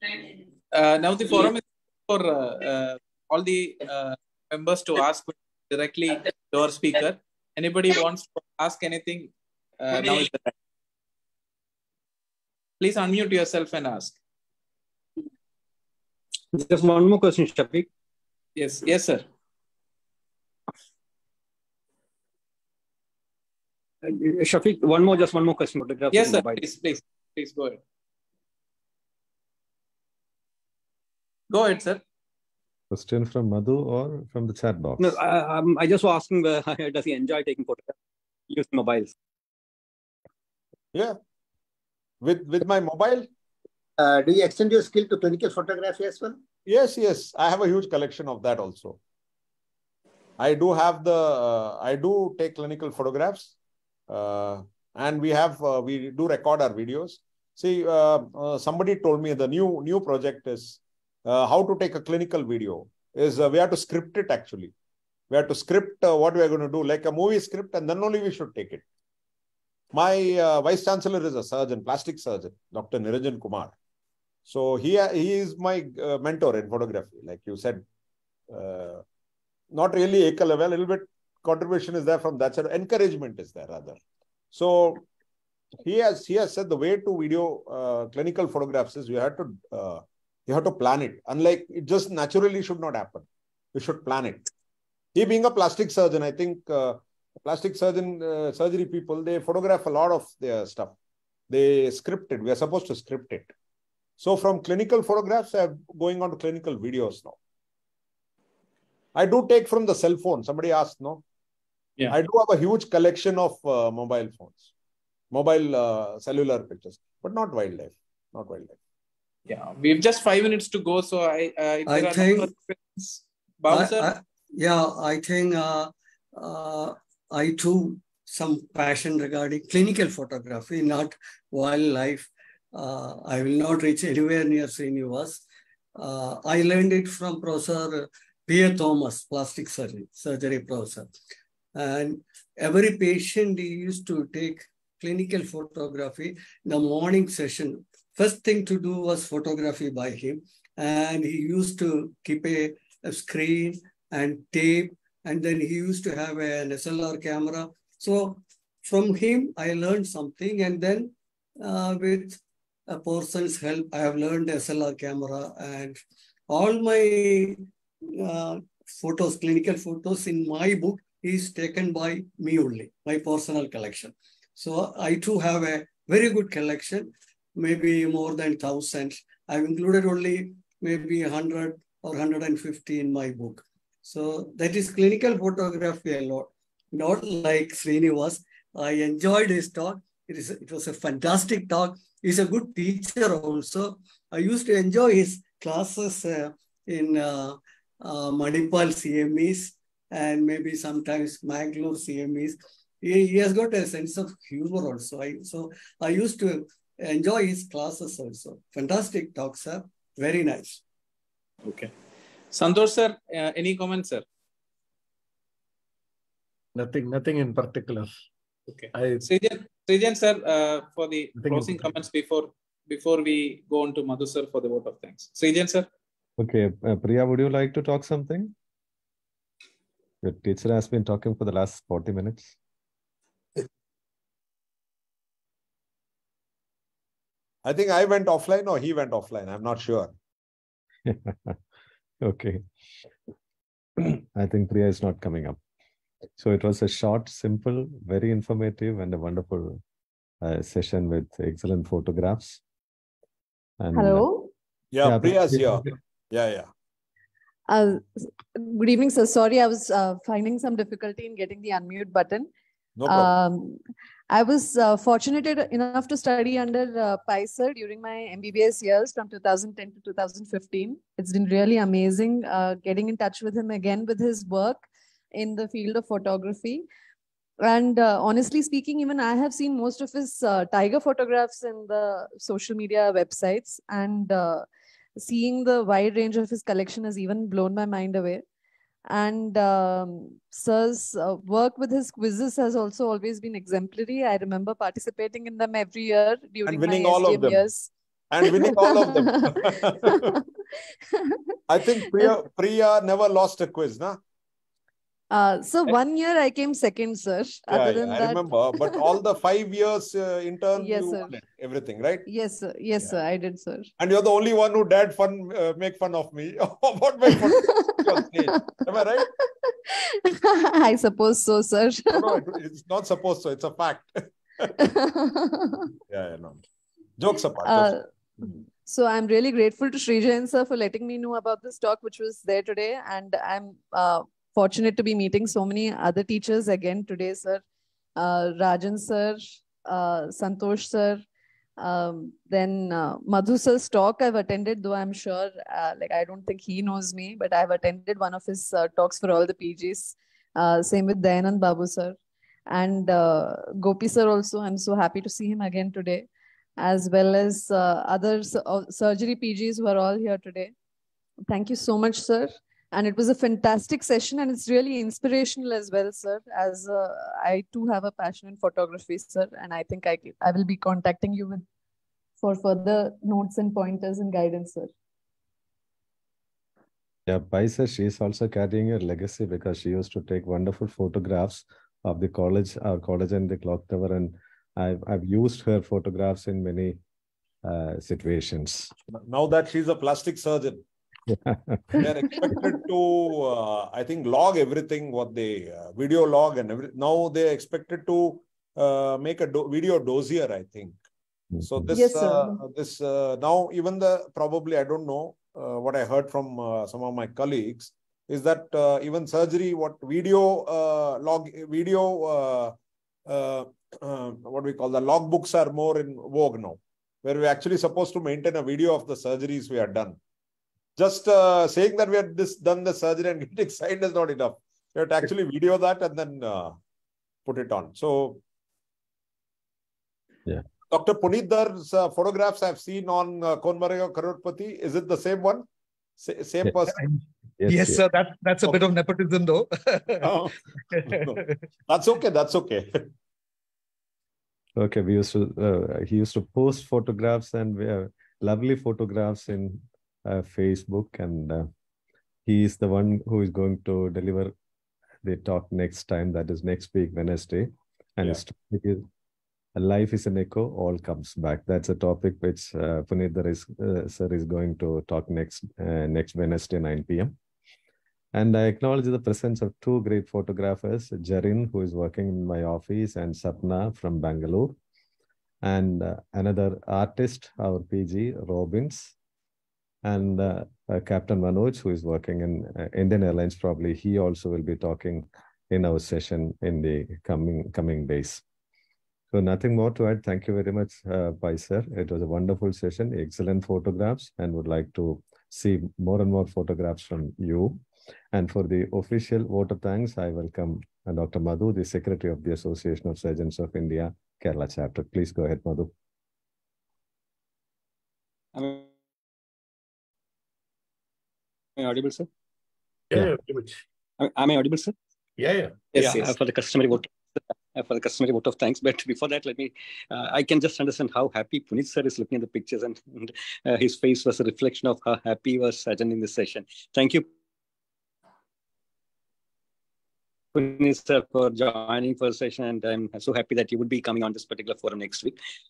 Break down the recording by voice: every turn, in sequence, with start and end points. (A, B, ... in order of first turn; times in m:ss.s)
0:00.7-0:10.5 A
0:12.8-0:14.2 A
0:16.5-0:17.9 B
0:18.6-0:19.2 A
0:24.0-0:26.7 B
0:26.1-0:27.8 A
0:31.5-0:32.0 A
0:32.9-0:35.2 C
0:35.0-0:37.9 B
0:38.5-0:39.1 B
0:42.2-0:43.3 D
0:44.0-0:46.3 E
0:46.7-0:49.0 D
0:50.4-0:53.5 D
0:54.1-1:04.7 D
1:05.3-1:08.8 D
1:09.9-1:13.7 D
1:14.4-1:17.8 D
1:18.5-1:19.0 D
1:19.7-1:24.0 D
1:24.5-1:25.0 D
1:25.8-1:34.5 D
1:35.1-1:40.9 D
1:41.5-1:43.5 D
1:44.2-1:47.4 D
1:49.1-1:51.2 D
1:52.1-1:54.7 D
1:55.3-1:58.8 D
1:59.5-2:04.1 A
2:01.9-2:02.5 F
2:03.7-2:15.4 F
2:16.0-2:21.1 F
2:21.7-3:30.8 F
3:31.6-3:31.9 A
3:32.5-3:34.2 A
3:36.7-3:38.1 G
3:38.7-3:45.9 A
3:38.9-3:39.3 G
3:41.4-3:41.9 G
3:46.4-3:48.5 C
3:50.2-3:52.6 C
3:57.6-4:00.1 D
4:01.0-4:01.6 C
4:02.2-4:02.6 C
4:04.0-4:05.6 C
4:06.4-4:09.8 C
4:10.4-4:12.6 C
4:13.8-4:14.3 C
4:13.9-4:14.5 H
4:14.9-4:16.7 D
4:15.0-4:15.8 C
4:17.7-4:22.5 H
4:23.0-4:23.4 D
4:23.0-4:23.8 H
4:24.3-4:36.8 H
4:37.6-4:48.4 H
4:49.1-5:00.4 H
4:56.6-4:57.6 D
4:58.3-5:00.4 D
5:01.1-5:02.3 H
5:01.7-5:04.2 D
5:05.3-5:09.2 H
5:07.7-5:12.2 D
5:10.8-5:11.4 H
5:12.2-5:13.9 H
5:14.0-5:19.3 D
5:17.3-5:22.4 H
5:22.1-5:24.7 D
5:24.8-5:25.9 H
5:26.1-5:26.6 D
5:27.2-5:27.9 D
5:27.6-5:37.6 H
5:38.2-5:41.2 H
5:41.8-5:52.2 H
5:52.7-5:56.2 H
5:56.8-6:00.7 H
6:01.5-6:11.6 H
6:12.4-6:14.9 H
6:17.3-6:27.0 C
6:27.6-6:28.9 C
6:29.1-6:30.8 D
6:31.3-6:32.0 C
6:32.0-6:41.0 D
6:32.4-6:32.7 H
6:41.5-6:41.9 C
6:41.6-6:52.7 D
6:41.9-6:42.6 H
6:53.3-7:00.2 D
7:01.0-7:06.8 D
7:07.4-7:08.4 D
7:10.9-7:15.6 D
7:16.2-7:17.0 D
7:17.6-7:18.0 C
7:17.6-7:20.3 I
7:20.2-7:23.0 D
7:20.9-7:21.6 I
7:24.8-7:31.7 C
7:32.4-7:34.5 C
7:35.2-7:39.0 C
7:39.8-7:47.3 C
7:48.3-7:54.8 C
7:55.6-7:59.1 C
8:00.0-8:08.4 C
8:09.3-8:25.9 C
8:28.5-8:28.9 B
8:31.8-8:32.3 B
8:33.1-8:33.8 G
8:34.2-8:34.9 B
8:35.4-8:35.9 G
8:36.0-8:47.3 B
8:50.5-8:55.4 B